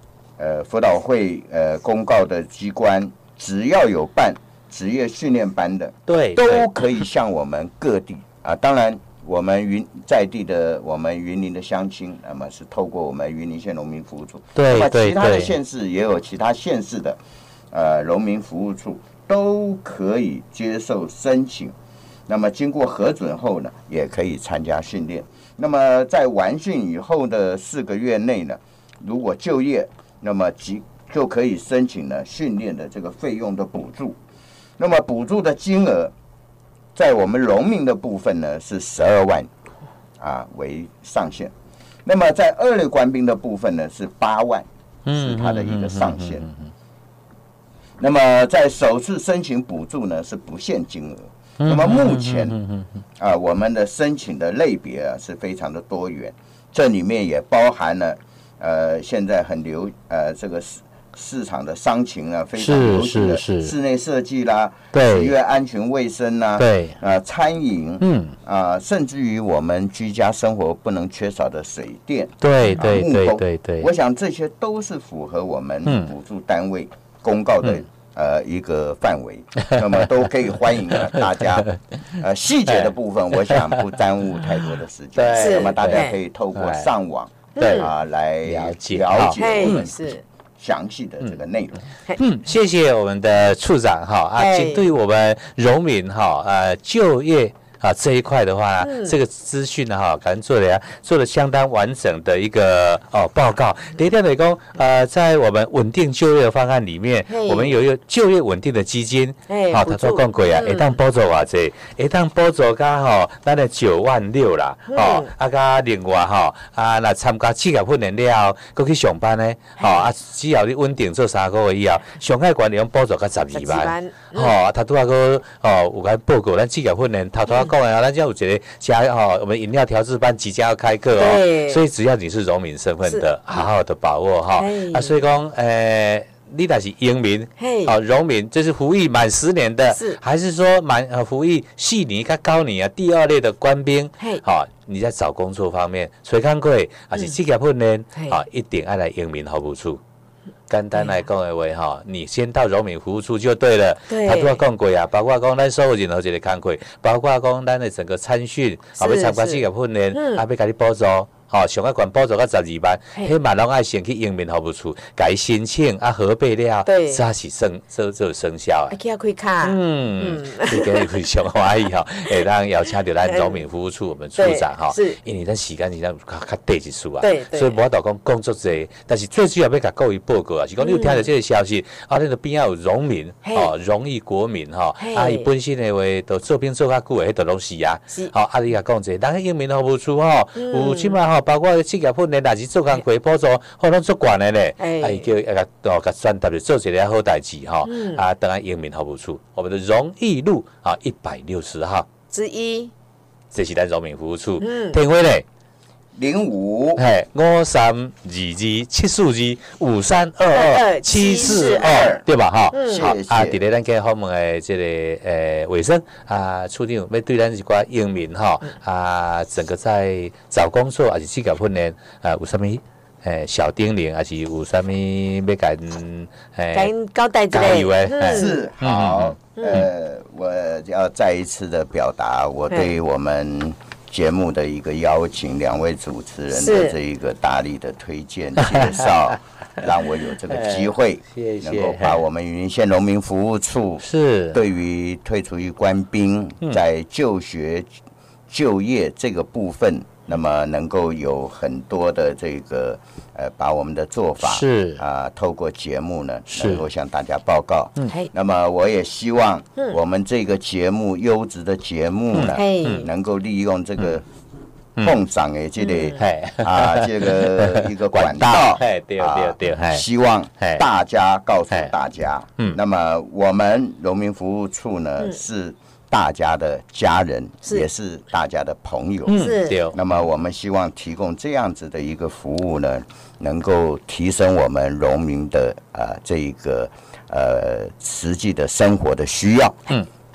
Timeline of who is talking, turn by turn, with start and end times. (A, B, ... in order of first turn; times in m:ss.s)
0:00.4-0:17.2 A
0:06.1-0:06.7 B
0:14.6-0:15.6 B
0:17.7-0:21.7 A
0:22.3-0:34.2 A
0:34.8-0:36.1 A
0:36.9-0:39.5 A
0:40.2-0:41.5 A
0:42.0-0:46.4 A
0:45.0-0:46.7 B
0:48.0-0:52.6 A
0:51.6-0:52.9 B
0:53.2-1:29.9 A
1:02.6-1:03.7 B
1:04.9-1:05.3 B
1:06.6-1:07.0 B
1:08.0-1:08.3 B
1:12.4-1:13.9 B
1:15.9-1:16.1 B
1:19.6-1:20.1 B
1:20.9-1:21.7 B
1:23.5-1:23.8 B
1:25.2-1:26.9 B
1:25.3-1:26.2 C
1:27.5-1:27.9 C
1:27.6-1:27.9 B
1:28.4-1:29.9 B
1:29.4-1:30.2 C
1:30.6-1:31.8 A
1:32.2-2:30.0 B
1:34.4-1:34.9 C
1:38.8-1:39.2 C
1:47.3-1:47.8 C
1:49.5-1:51.0 C
1:54.9-1:55.3 C
1:59.8-2:00.1 C
2:03.5-2:04.5 C
2:11.2-2:11.8 C
2:14.6-2:15.2 C
2:17.6-2:17.9 C
2:19.9-2:20.2 C
2:30.7-2:48.9 B
2:34.1-2:34.6 C
2:39.0-2:40.4 C
2:46.8-2:47.2 C
2:48.9-2:51.2 C
2:49.6-3:22.1 B
2:53.2-2:53.6 C
2:54.4-2:55.2 C
2:57.2-2:57.8 C
3:00.8-3:01.2 C
3:03.4-3:03.7 C
3:05.0-3:05.5 C
3:10.6-3:11.2 C
3:14.8-3:15.3 C
3:17.9-3:18.2 C
3:22.3-3:22.9 C
3:23.5-3:25.4 B
3:24.6-3:25.0 C
3:26.1-3:27.0 A
3:27.0-3:46.9 B
3:30.5-3:33.1 C
3:31.5-3:32.2 A
3:32.9-3:33.6 A
3:46.7-3:48.6 C
3:47.5-3:49.9 B
3:48.2-4:07.9 A
3:49.6-3:49.8 C
3:56.5-3:57.0 C
3:58.6-3:59.3 B
4:00.5-4:02.2 B
4:04.0-4:04.6 B
4:08.5-4:24.2 A
4:14.4-4:15.0 B
4:16.5-4:16.8 B
4:22.3-4:23.0 B
4:22.5-4:23.1 C
4:25.0-4:49.8 A
4:25.8-4:26.2 C
4:26.2-4:30.0 B
4:30.6-4:30.8 B
4:39.3-4:40.0 B
4:39.4-4:39.8 C